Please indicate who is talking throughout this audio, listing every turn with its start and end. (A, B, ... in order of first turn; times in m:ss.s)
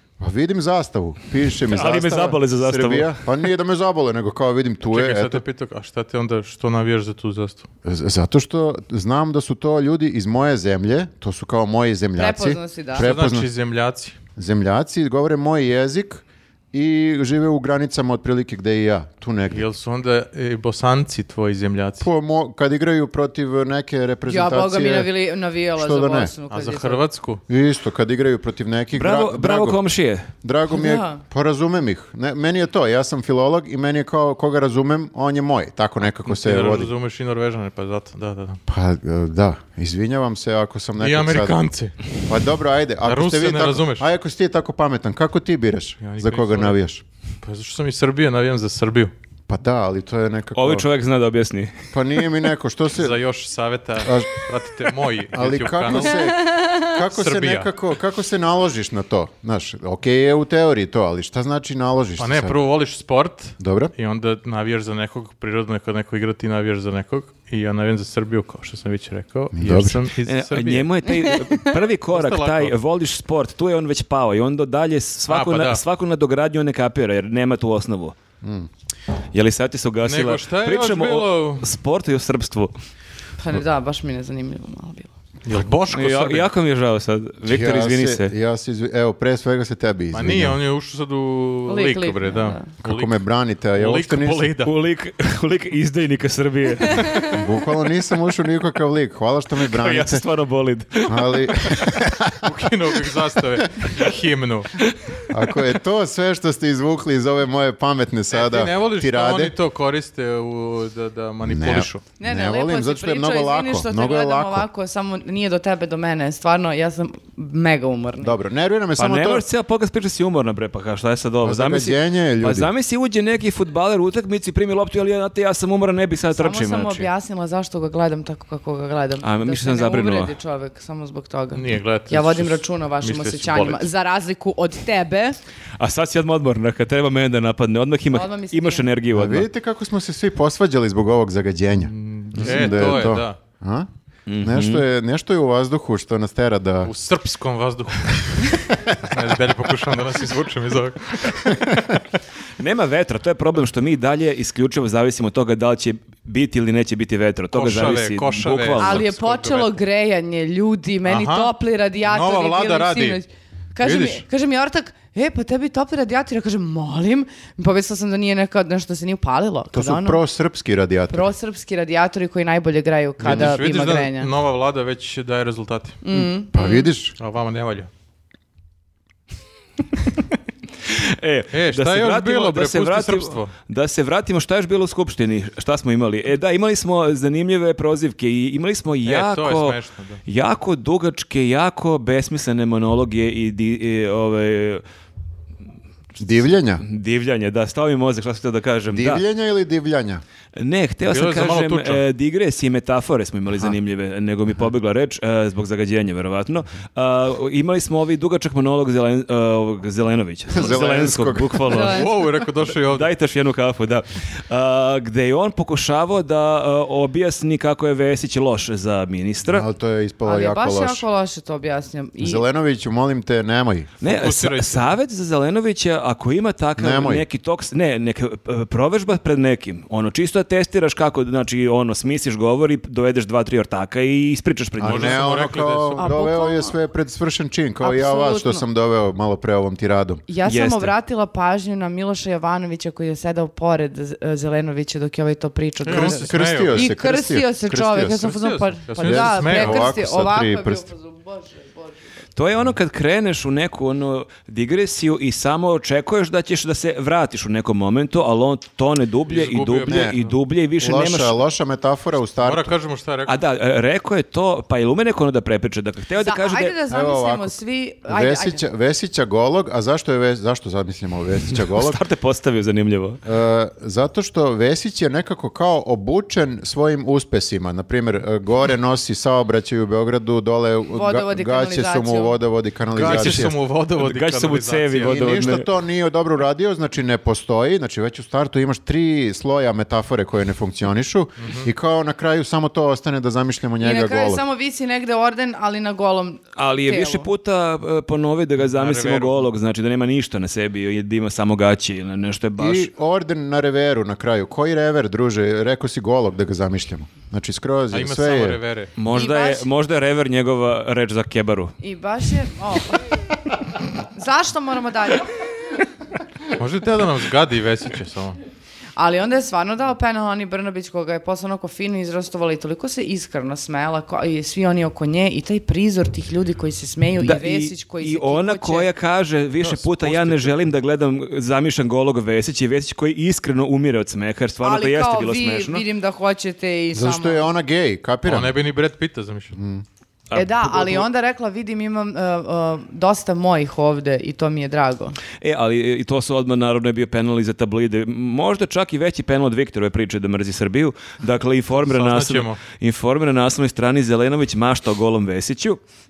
0:00.2-0:05.4 A
0:01.6-0:03.2 B
0:04.9-0:07.7 C
0:07.8-0:13.5 A
0:12.2-0:13.1 D
0:13.0-0:14.2 C
0:14.4-0:19.6 A
0:19.5-0:22.1 C
0:22.0-0:25.1 A
0:24.3-0:27.0 D
0:25.8-0:26.3 A
0:26.5-0:27.4 C
0:27.5-0:29.8 A
0:28.9-0:30.3 B
0:30.4-0:36.9 A
0:30.7-0:31.2 D
0:36.2-0:38.6 C
0:38.7-0:41.6 A
0:41.0-0:42.1 C
0:42.2-0:47.0 A
0:43.0-0:44.1 C
0:46.0-0:46.8 C
0:47.4-0:49.1 C
0:49.5-0:50.9 A
0:50.5-0:51.8 B
0:51.9-0:53.2 A
0:52.9-0:56.4 C
0:54.0-0:54.4 A
0:55.3-1:02.6 A
0:56.5-0:56.8 D
0:57.1-0:57.7 C
1:02.2-1:10.9 C
1:03.6-1:03.9 A
1:09.5-1:10.0 A
1:10.2-1:18.1 B
1:11.2-1:11.7 D
1:12.1-1:12.8 C
1:15.3-1:15.8 C
1:18.4-1:18.7 A
1:19.3-1:22.7 B
1:20.0-1:21.6 C
1:23.4-1:25.1 D
1:25.4-1:26.5 C
1:25.9-1:28.3 B
1:27.4-1:30.6 A
1:30.1-1:33.2 C
1:31.7-1:32.7 D
1:32.8-1:34.5 A
1:33.7-1:34.7 C
1:34.6-1:37.4 B
1:37.3-1:40.2 A
1:39.7-1:41.9 B
1:41.0-1:42.5 A
1:42.4-1:44.7 C
1:45.3-1:49.5 A
1:48.3-1:52.0 C
1:51.5-1:54.7 A
1:52.2-1:58.3 D
1:58.2-1:59.4 A
1:59.0-2:07.1 B
2:01.4-2:02.7 A
2:06.3-2:15.4 D
2:09.2-2:10.3 B
2:11.5-2:13.9 C
2:15.8-2:19.5 B
2:18.1-2:18.8 D
2:19.1-2:23.9 A
2:21.8-2:23.4 C
2:24.3-2:24.8 B
2:24.4-2:26.9 A
2:26.8-2:32.0 C
2:32.6-2:39.1 B
2:37.5-2:39.7 C
2:38.8-2:50.2 D
2:41.0-2:43.2 C
2:43.8-2:44.2 C
2:49.7-2:51.3 A
2:51.1-2:54.3 D
2:53.2-2:53.6 A
2:53.2-2:56.0 C
2:56.0-2:56.9 D
2:56.5-2:57.1 A
2:57.2-2:57.9 C
3:00.9-3:14.8 B
3:01.5-3:03.5 C
3:09.0-3:10.2 C
3:16.2-3:16.8 A
3:16.8-3:19.2 B
3:18.9-3:20.2 A
3:20.6-3:39.6 B
3:21.1-3:22.0 C
3:30.5-3:31.6 A
3:31.7-3:32.2 D
3:31.7-3:33.1 C
3:39.5-3:41.0 A
3:40.2-3:42.4 D
3:42.2-3:43.9 A
3:44.0-3:55.3 B
3:44.0-3:44.9 C
3:46.8-3:47.2 A
3:54.8-4:00.2 A
3:54.8-3:56.1 C
3:56.0-3:56.7 D
3:57.8-3:58.6 D
4:00.3-4:12.1 D
4:00.4-4:00.9 B
4:05.8-4:06.9 C
4:05.9-4:08.3 A
4:08.1-4:09.9 C
4:09.0-4:10.9 A
4:12.4-4:21.4 B
4:19.3-4:20.4 C
4:19.8-4:20.1 A
4:20.8-4:22.7 A
4:22.4-4:23.4 C
4:23.3-4:26.8 B
4:26.2-4:28.6 D
4:26.9-4:32.0 A
4:31.5-4:33.2 B
4:33.2-4:43.5 A
4:40.9-4:42.4 D
4:42.9-4:45.6 C
4:43.0-4:45.6 B
4:45.0-4:54.4 A
4:51.4-4:51.7 C
4:53.8-4:57.3 D
4:56.6-5:02.9 B
4:58.6-4:59.5 C
5:02.6-5:08.6 A
5:07.9-5:08.9 C
5:09.0-5:11.7 B
5:09.1-5:09.7 D
5:11.8-5:13.0 D
5:14.1-5:15.3 D
5:16.6-5:18.4 C
5:19.0-5:28.9 D
5:27.2-5:35.8 B
5:29.6-5:30.6 C
5:34.6-5:37.5 D
5:36.9-5:38.6 A
5:38.2-5:39.6 C
5:39.5-5:39.8 A
5:40.3-5:41.1 B
5:40.3-5:45.2 D
5:45.4-5:55.8 B
5:51.7-5:52.6 C